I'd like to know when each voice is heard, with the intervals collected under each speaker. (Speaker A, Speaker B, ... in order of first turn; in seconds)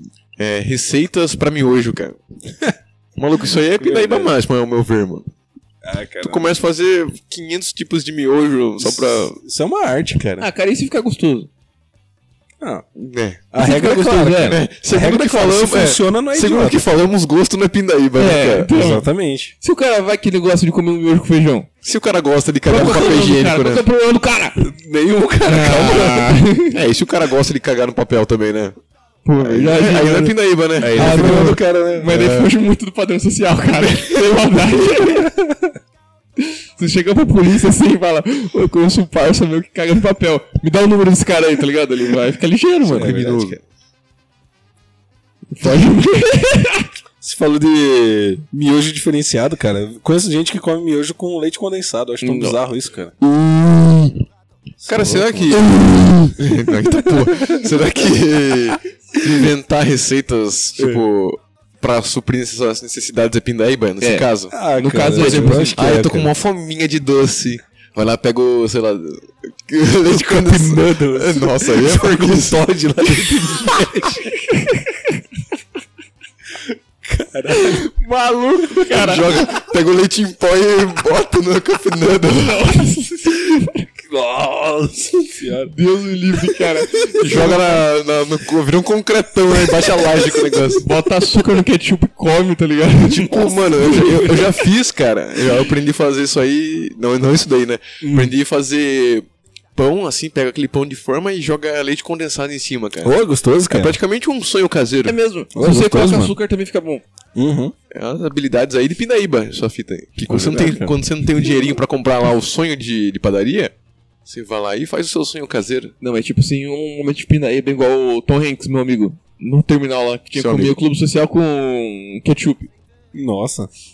Speaker A: 0.4-2.2, 3.1-5.3, 6.2-9.4, 12.9-13.5, 14.4-18.7, 21.8-23.8, 26.7-28.8, 29.4-32.5, 42.9-43.6, 54.9-64.6, 65.1-72.6, 78.9-82.8, 87.2-90.9, 93.1-99.2, 99.8-103.1, 103.7-105.2, 107.9-113.7, 114.2-115.9, 120.3-120.8
Speaker B: 3.8-4.3, 5.8-6.5, 8.8-10.5, 12.6-12.9, 13.5-16.9, 18.7-19.5, 22.7-23.3, 24.6-26.3, 30.8-32.1, 35.2-35.7, 42.9-43.6, 47.2-53.1, 54.8-55.6, 57.2-57.7, 60.8-61.0, 64.5-66.3, 70.0-74.3, 76.5-77.9, 84.0-85.7, 86.4-87.8, 89.7-90.3, 93.2-94.4, 98.0-98.3, 103.0-104.0, 105.5-106.3, 107.4-107.7, 110.3-111.0, 123.1-123.7
Speaker C: 10.4-11.5, 13.6-14.6, 18.2-19.1, 19.6-21.7, 22.7-24.6, 25.4-26.8, 29.2-35.3, 36.4-43.3, 45.5-46.9, 52.2-52.6, 53.2-54.2, 55.5-56.4, 64.0-65.7, 74.3-75.2, 77.5-79.5, 82.4-83.9, 85.7-87.7, 90.7-94.5, 105.0-107.0, 116.0-122.7